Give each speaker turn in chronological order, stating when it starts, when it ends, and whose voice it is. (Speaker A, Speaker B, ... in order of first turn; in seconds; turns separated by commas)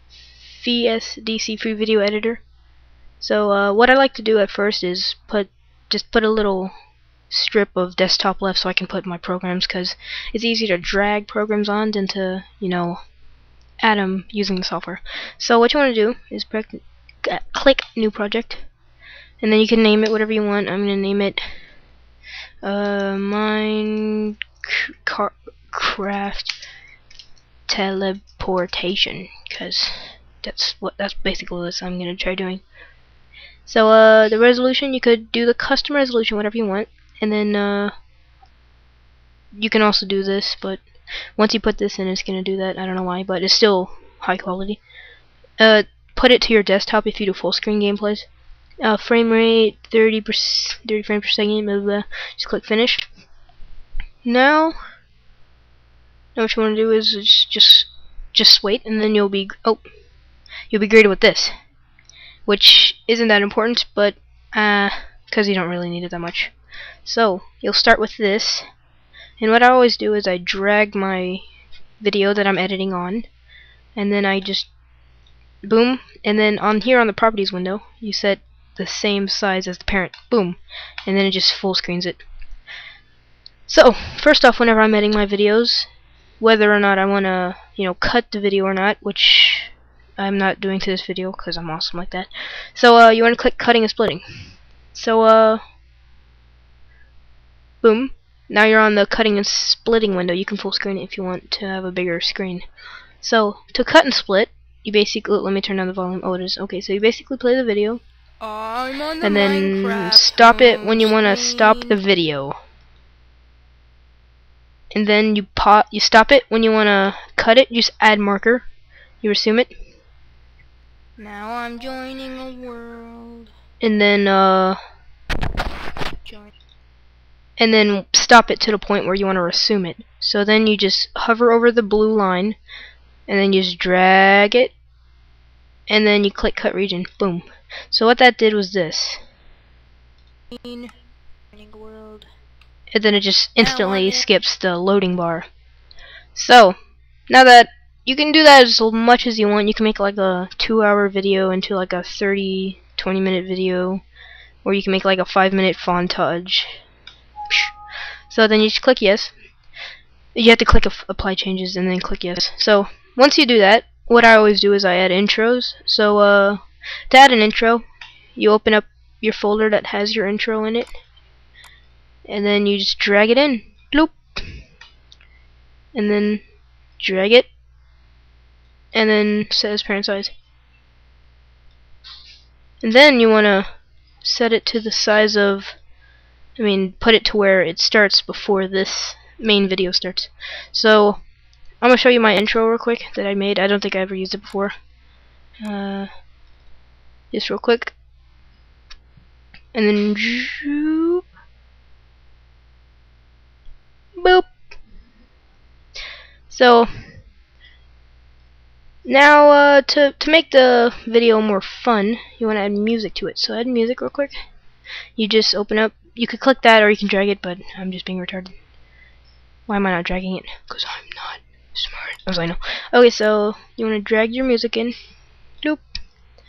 Speaker A: 0.5-2.4, Speaker A: 3.2-6.7, Speaker A: 7.3-13.0, Speaker A: 13.8-18.6, Speaker A: 19.4-21.4, Speaker A: 22.6-26.6, Speaker A: 27.7-32.6, Speaker A: 33.6-37.9, Speaker A: 39.5-40.8, Speaker A: 41.4-44.8, Speaker A: 45.6-48.2, Speaker A: 48.8-53.0, Speaker A: 54.2-54.7, Speaker A: 56.4-59.8, Speaker A: 60.7-61.5, Speaker A: 62.5-66.5, Speaker A: 67.0-68.6, Speaker A: 69.4-71.4, Speaker A: 72.0-73.2, Speaker A: 74.0-74.7, Speaker A: 75.6-82.2, Speaker A: 83.7-85.9, Speaker A: 86.4-94.2, Speaker A: 94.9-95.6, Speaker A: 97.8-102.6, Speaker A: 103.2-108.0, Speaker B: 108.4-112.0, Speaker A: 109.2-112.6, Speaker A: 114.9-118.7, Speaker A: 119.2-119.7, Speaker B: 121.2-123.5, Speaker A: 123.8-124.8, Speaker B: 126.2-126.5, Speaker A: 127.6-132.6, Speaker A: 133.3-134.7, Speaker A: 135.9-139.2, Speaker B: 140.5-140.9, Speaker B: 141.5-142.3, Speaker A: 142.9-145.5, Speaker B: 143.6-144.2, Speaker A: 146.3-146.8, Speaker A: 147.3-154.0, Speaker A: 154.6-156.7, Speaker A: 158.3-159.3, Speaker A: 160.3-167.8, Speaker A: 168.3-170.9, Speaker A: 172.3-174.4, Speaker A: 175.9-176.4, Speaker A: 177.0-177.5, Speaker A: 178.9-180.3, Speaker A: 182.8-183.7, Speaker A: 184.2-185.8, Speaker A: 186.6-191.2, Speaker A: 191.8-194.7, Speaker A: 195.6-196.1, Speaker A: 197.3-197.9, Speaker A: 199.7-201.2, Speaker A: 204.2-204.5, Speaker A: 206.5-206.9, Speaker A: 209.0-214.3, Speaker A: 215.2-218.5, Speaker A: 219.7-224.9